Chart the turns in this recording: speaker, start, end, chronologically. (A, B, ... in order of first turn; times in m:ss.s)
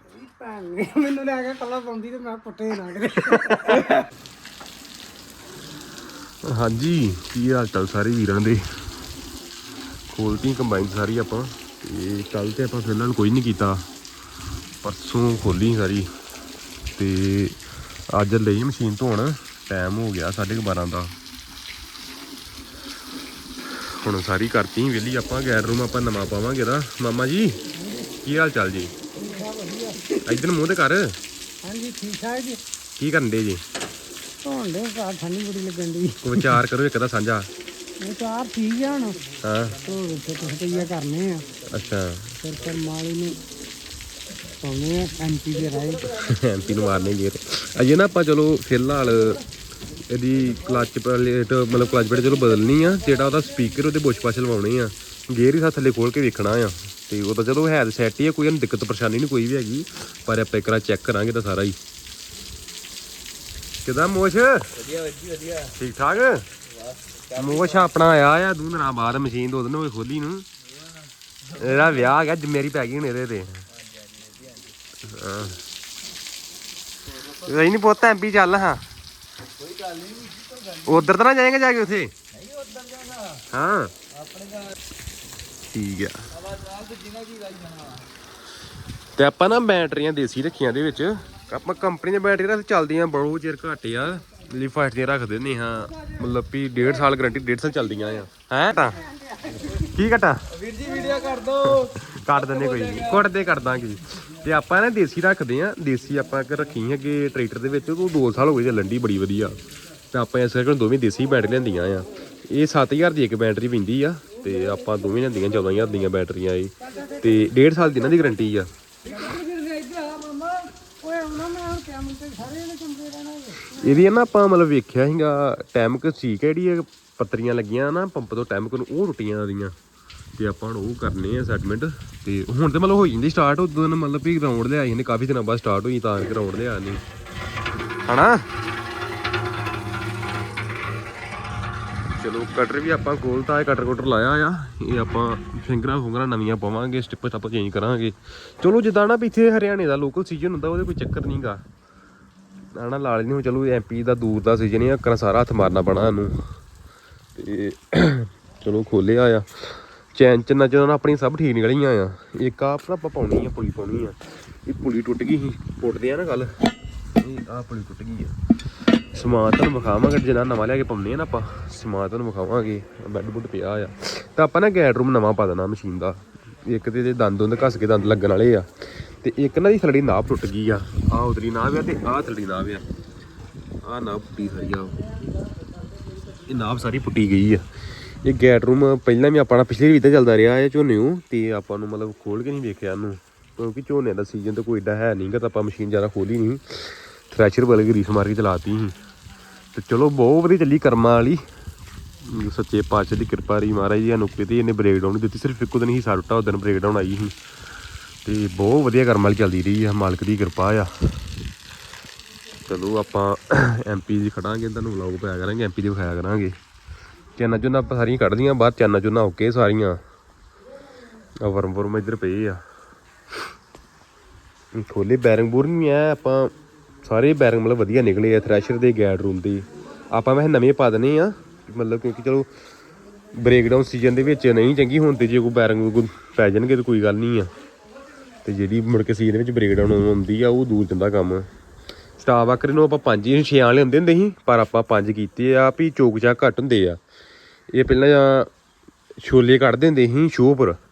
0:00.1-0:04.0 A
0:06.4-0:08.6 B
0:10.1-0:13.8 B
0:14.8-0:16.1 B
0:17.0-0:21.1 B
0:23.8-0:27.6 B
0:27.7-0:28.2 A
0:28.2-0:29.0 B
0:29.1-0:30.4 A
0:30.2-0:31.2 B
0:31.6-0:32.6 A
0:33.0-0:33.6 B
0:34.4-0:36.6 A
0:36.2-0:37.5 B
0:38.0-0:39.3 A
0:39.4-0:39.8 B
0:39.8-0:41.5 A
0:39.8-0:40.7 C
0:41.6-0:42.4 B
0:42.4-0:43.4 A
0:44.6-0:46.2 A
0:45.7-0:47.0 C
0:46.1-0:49.4 B
0:50.1-1:01.8 B
1:03.8-1:04.7 B
1:04.8-1:05.8 C
1:05.7-1:06.5 B
1:06.7-1:07.9 C
1:07.3-1:10.4 B
1:11.4-1:12.1 C
1:11.6-1:13.6 B
1:13.8-1:14.8 C
1:15.0-1:15.6 B
1:17.4-1:18.8 B
1:19.6-1:21.1 C
1:20.8-1:22.1 B
1:22.3-1:23.5 C
1:23.5-1:23.9 B
1:24.1-1:24.7 C
1:25.7-1:26.2 B
1:26.3-1:28.1 C
1:29.1-1:39.0 B
1:35.9-1:36.2 A
1:37.8-1:38.2 A
1:38.8-1:39.9 A
1:39.8-1:40.5 B
1:40.5-1:43.3 C
1:40.8-1:41.5 A
1:41.5-1:49.5 B
1:50.1-1:58.7 B
1:54.4-1:55.0 A
1:56.8-1:58.4 A
1:59.0-2:04.2 A
2:03.7-2:09.7 B
2:10.4-2:17.0 B
2:18.1-2:18.5 B
2:22.1-2:31.6 B
2:32.7-2:36.4 B
2:37.3-2:46.6 B
2:47.2-2:48.3 B
2:49.1-3:02.8 B
3:03.8-3:05.0 B
3:06.4-3:18.9 B
3:19.7-3:21.4 B
3:22.2-3:27.4 B
3:28.2-3:31.2 B
3:32.7-3:36.5 B
3:37.4-3:40.0 B
3:41.4-3:42.6 B
3:44.7-3:46.5 B
3:47.0-3:52.5 B
3:53.3-3:57.5 B
3:58.4-4:01.5 B
4:02.2-4:07.0 B
4:07.7-4:08.5 B
4:09.2-4:10.8 B